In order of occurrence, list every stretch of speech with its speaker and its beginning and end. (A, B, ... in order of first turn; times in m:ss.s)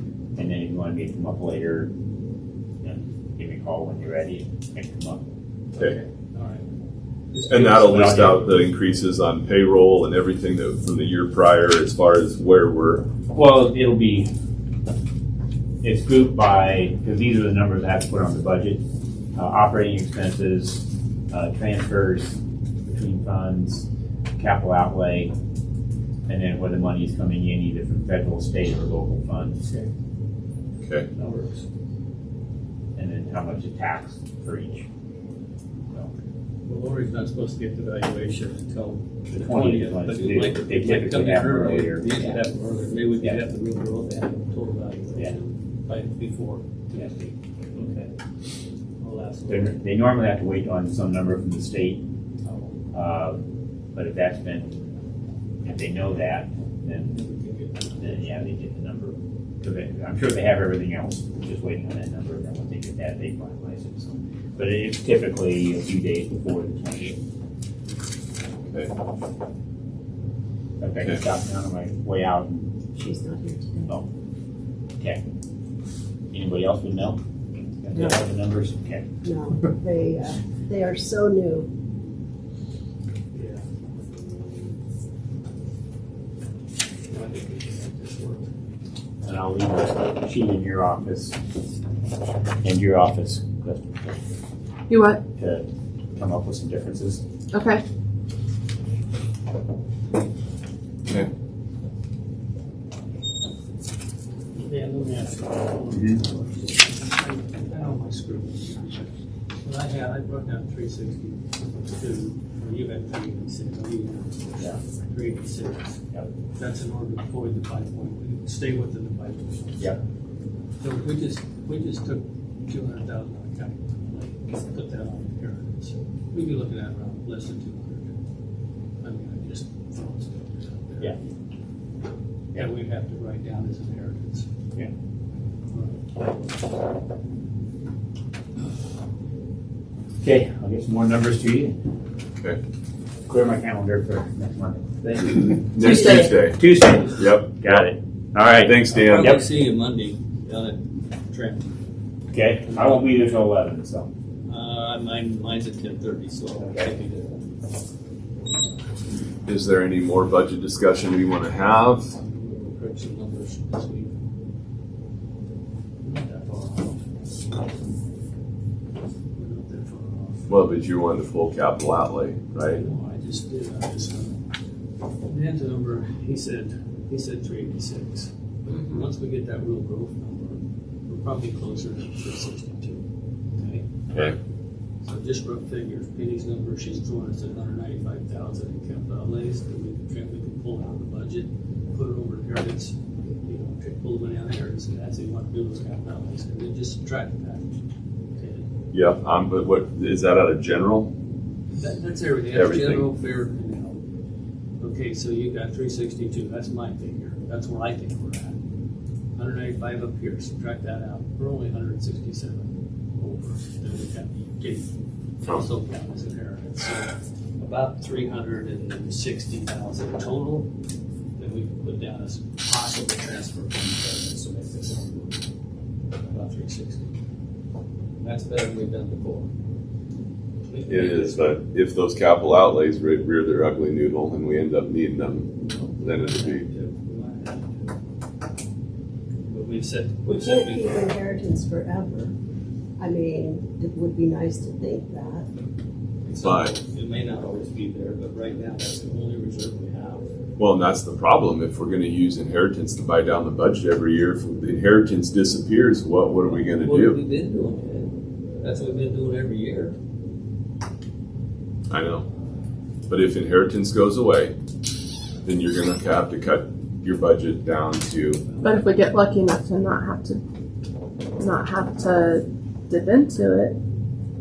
0:00.3-0:01.9 A
0:02.8-0:05.3 A
0:05.7-0:06.6 B
0:07.3-0:08.6 B
0:07.5-0:13.1 C
0:07.5-0:08.4 A
0:13.3-0:14.3 A
0:15.8-0:18.8 A
0:19.3-0:23.9 A
0:24.4-0:25.3 A
0:26.3-0:29.6 A
0:29.6-0:29.9 B
0:31.1-0:31.6 B
0:32.9-0:34.8 A
0:36.6-0:46.6 B
0:39.3-0:42.4 A
0:46.9-0:48.1 A
0:49.0-0:49.8 B
0:49.5-0:52.0 A
0:52.4-0:52.8 B
0:52.9-0:54.8 A
0:55.6-0:57.2 A
0:57.1-0:58.3 B
0:58.0-1:07.2 A
1:10.8-1:12.7 A
1:12.9-1:14.0 D
1:16.3-1:17.2 A
1:17.8-1:19.1 A
1:17.9-1:18.2 D
1:19.2-1:21.7 D
1:23.3-1:23.6 B
1:27.1-1:28.5 B
1:29.2-1:31.4 A
1:32.6-1:34.2 A
1:34.9-1:35.2 E
1:35.4-1:37.2 A
1:37.5-1:37.8 E
1:44.6-1:56.0 B
1:45.9-1:46.2 A
1:56.5-2:00.0 B
2:00.8-2:08.1 B
2:09.0-2:11.2 B
2:12.5-2:14.5 B
2:15.7-2:17.0 B
2:20.2-2:21.8 A
2:23.2-2:29.4 A
2:25.4-2:27.9 C
2:28.6-2:29.4 C
2:28.9-2:31.7 B
2:32.3-2:34.1 A
2:32.6-2:33.1 B
2:34.5-2:37.4 B
2:36.6-2:36.9 A
2:39.4-2:42.1 C
2:42.1-2:44.1 B
2:46.0-2:47.5 B
2:49.3-2:50.4 B
2:50.5-2:52.8 C
2:52.6-2:54.4 B
2:55.2-3:03.0 B
3:05.0-3:17.7 B
3:18.4-3:18.6 B
3:18.9-3:21.1 C
3:21.7-3:24.0 B
3:22.5-3:23.1 C
3:24.8-3:28.6 B
3:29.3-3:34.9 B
3:35.4-3:40.7 B
3:41.4-3:45.4 B
3:46.2-3:47.1 B
3:48.2-3:49.5 B
3:50.7-3:51.5 B
3:50.9-3:56.6 C
3:55.6-3:57.9 B
3:59.4-4:01.1 B
4:00.2-4:02.3 D
4:03.0-4:05.5 D
4:06.2-4:10.3 B
4:06.4-4:06.7 C
4:10.6-4:17.2 C
4:16.7-4:20.0 B
4:21.9-4:22.2 C
4:23.1-4:24.5 C
4:25.4-4:28.5 C
4:28.6-4:30.4 E
4:31.4-4:33.8 E